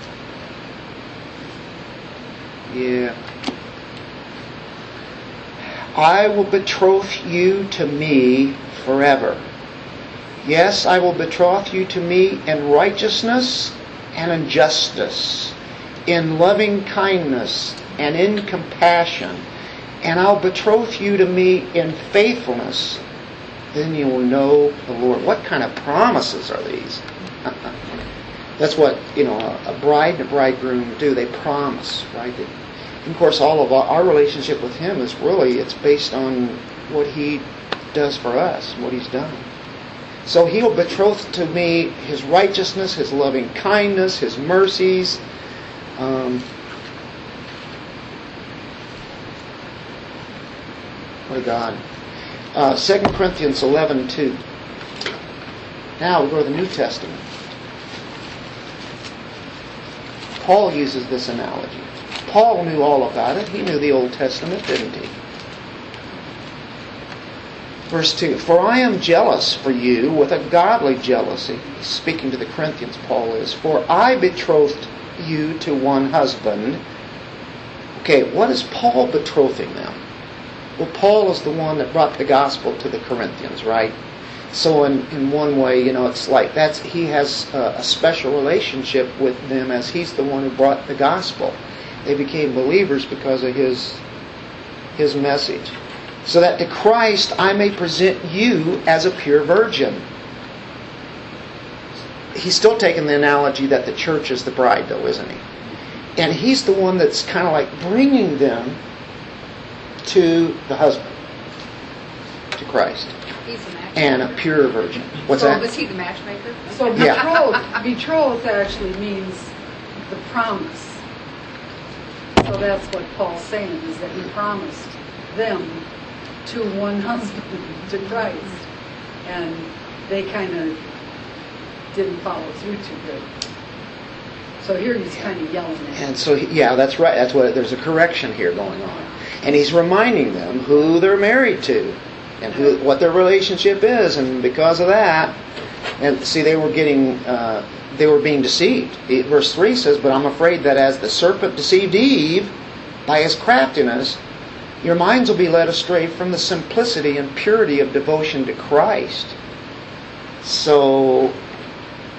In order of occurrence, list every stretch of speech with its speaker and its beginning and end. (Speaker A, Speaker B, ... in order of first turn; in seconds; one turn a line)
Speaker A: 2.7-3.1
Speaker A: 5.9-9.4
Speaker A: 10.4-15.5
Speaker A: 16.1-19.4
Speaker A: 20.0-23.0
Speaker A: 23.7-27.5
Speaker A: 28.6-32.5
Speaker A: 33.0-39.5
Speaker A: 40.2-45.2
Speaker A: 46.0-46.4
Speaker A: 51.3-51.8
Speaker A: 52.5-54.4
Speaker A: 56.0-57.2
Speaker A: 60.4-65.1
Speaker A: 67.9-76.8
Speaker A: 78.0-80.0
Speaker A: 80.8-83.9
Speaker A: 84.5-94.0
Speaker A: 95.0-95.7
Speaker A: 96.2-100.0
Speaker A: 102.3-105.4
Speaker A: 106.2-108.8
Speaker A: 110.0-111.0
Speaker A: 112.5-113.1
Speaker B: 113.4-114.3
Speaker A: 113.9-115.6
Speaker B: 115.2-117.2
Speaker C: 116.7-119.5
Speaker A: 117.0-117.2
Speaker C: 120.1-121.0
Speaker C: 122.4-125.8
Speaker C: 126.4-128.6
Speaker C: 129.2-130.8
Speaker C: 131.9-133.3
Speaker C: 134.6-136.0
Speaker A: 135.9-145.3
Speaker A: 146.0-152.5
Speaker A: 153.1-154.2
Speaker A: 154.8-159.3
Speaker A: 160.4-161.3